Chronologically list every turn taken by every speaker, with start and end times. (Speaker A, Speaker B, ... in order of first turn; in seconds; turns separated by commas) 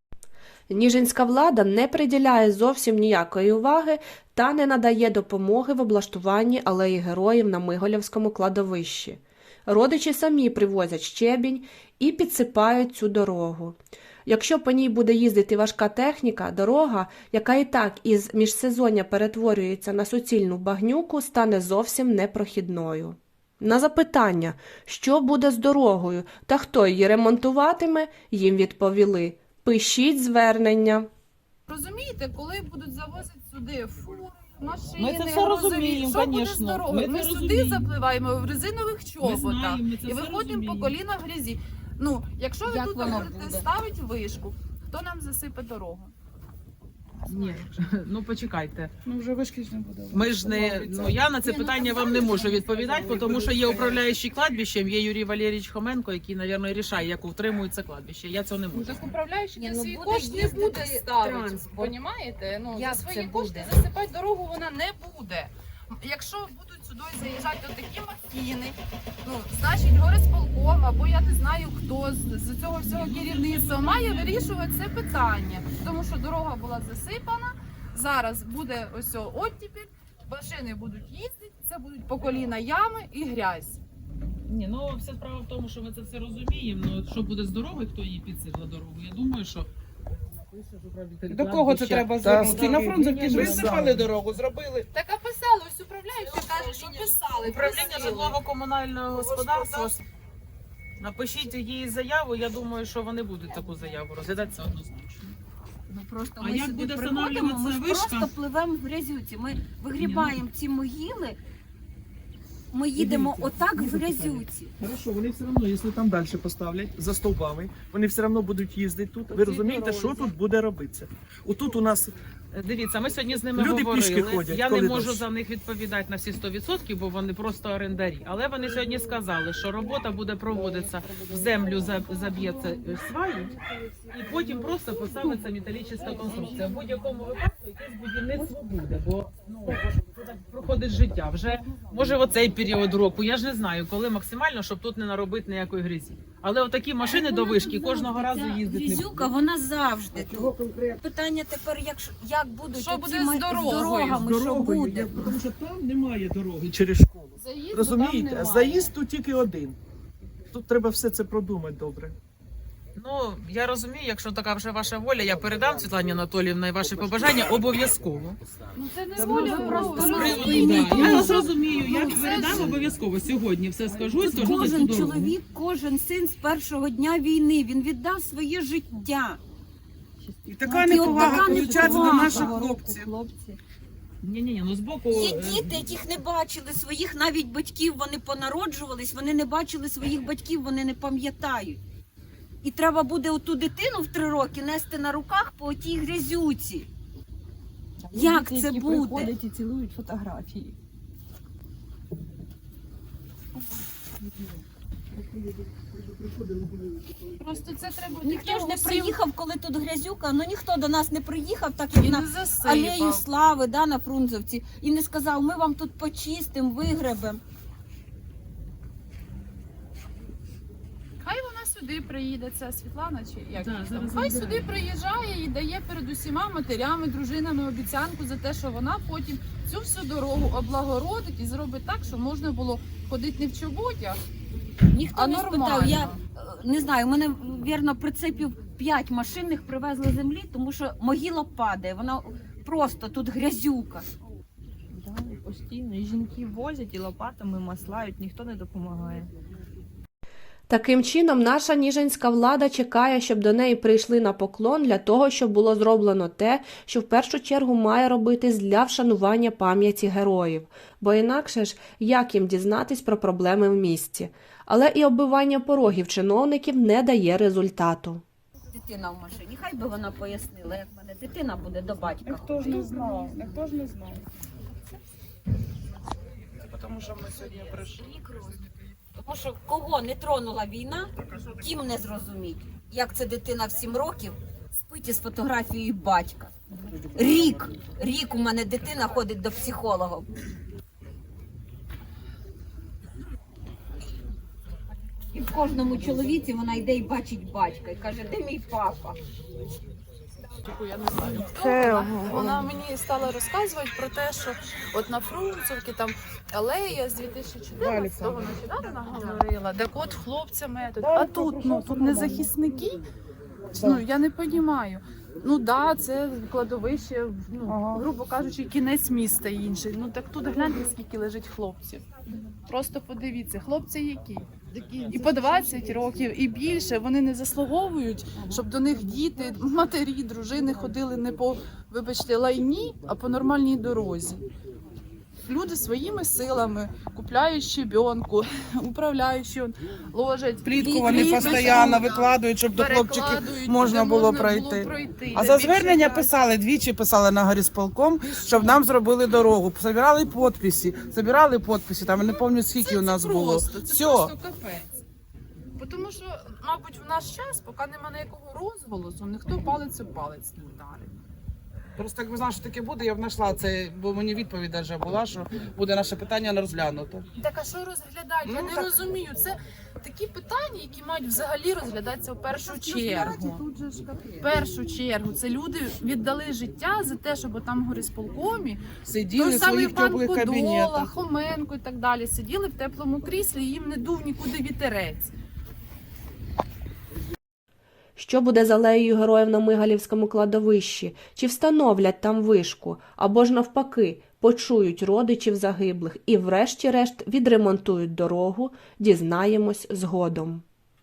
Speaker A: 0.7-31.1, Speaker B: 31.7-46.1, Speaker C: 35.0-37.9, Speaker C: 39.2-41.0, Speaker D: 42.6-43.7, Speaker C: 47.3-48.9, Speaker E: 49.0-51.1, Speaker C: 50.1-59.1, Speaker B: 51.4-54.0, Speaker E: 53.1-53.6, Speaker B: 58.7-83.8, Speaker D: 59.6-62.0, Speaker D: 62.7-63.8, Speaker C: 72.8-74.4, Speaker C: 84.5-89.7, Speaker C: 90.3-94.0, Speaker E: 91.3-94.9, Speaker B: 94.9-98.4, Speaker C: 97.5-100.0, Speaker B: 99.1-99.9, Speaker C: 101.0-105.3, Speaker D: 105.9-111.4, Speaker C: 106.4-108.3, Speaker C: 110.0-110.4, Speaker D: 112.7-114.7, Speaker F: 113.0-122.1, Speaker C: 119.3-120.3, Speaker C: 122.5-133.5, Speaker F: 123.5-125.2, Speaker C: 134.1-149.3, Speaker D: 147.1-155.4, Speaker F: 150.2-151.0, Speaker B: 152.7-154.2, Speaker F: 154.2-155.4, Speaker E: 155.5-155.9, Speaker F: 156.6-159.8, Speaker B: 157.4-158.9, Speaker F: 160.5-162.2, Speaker C: 162.9-168.4, Speaker B: 168.7-172.7, Speaker F: 169.2-170.1, Speaker C: 169.3-175.3, Speaker D: 169.7-171.4, Speaker F: 170.8-171.3, Speaker D: 174.2-179.4, Speaker G: 180.2-183.6, Speaker E: 180.5-183.1, Speaker D: 180.8-182.5, Speaker C: 182.3-182.6, Speaker C: 184.2-185.7, Speaker D: 185.1-191.8, Speaker D: 192.6-196.9, Speaker G: 198.1-200.8, Speaker D: 198.1-199.3, Speaker B: 207.4-209.2, Speaker D: 208.2-217.4, Speaker B: 211.9-213.2, Speaker B: 221.2-234.2, Speaker C: 223.5-224.7, Speaker D: 234.9-244.1, Speaker B: 235.1-236.1, Speaker G: 244.9-249.3, Speaker A: 250.7-268.2, Speaker D: 268.7-272.9, Speaker E: 272.2-274.2, Speaker E: 276.6-278.0, Speaker D: 278.0-278.6, Speaker D: 279.1-286.5, Speaker D: 287.1-290.3, Speaker D: 295.3-299.2, Speaker B: 300.5-313.0, Speaker G: 301.7-302.2, Speaker E: 307.8-308.5, Speaker D: 308.8-309.4, Speaker E: 311.0-312.0, Speaker G: 312.1-312.5, Speaker B: 313.7-322.0, Speaker G: 317.7-317.9, Speaker B: 322.7-334.4, Speaker B: 335.4-346.4, Speaker E: 340.6-354.3, Speaker B: 348.2-348.8, Speaker B: 352.7-355.0, Speaker B: 355.8-361.2, Speaker E: 362.0-367.2, Speaker B: 367.3-378.8, Speaker E: 368.4-368.9, Speaker E: 379.0-381.1, Speaker B: 379.3-385.3, Speaker A: 388.2-400.6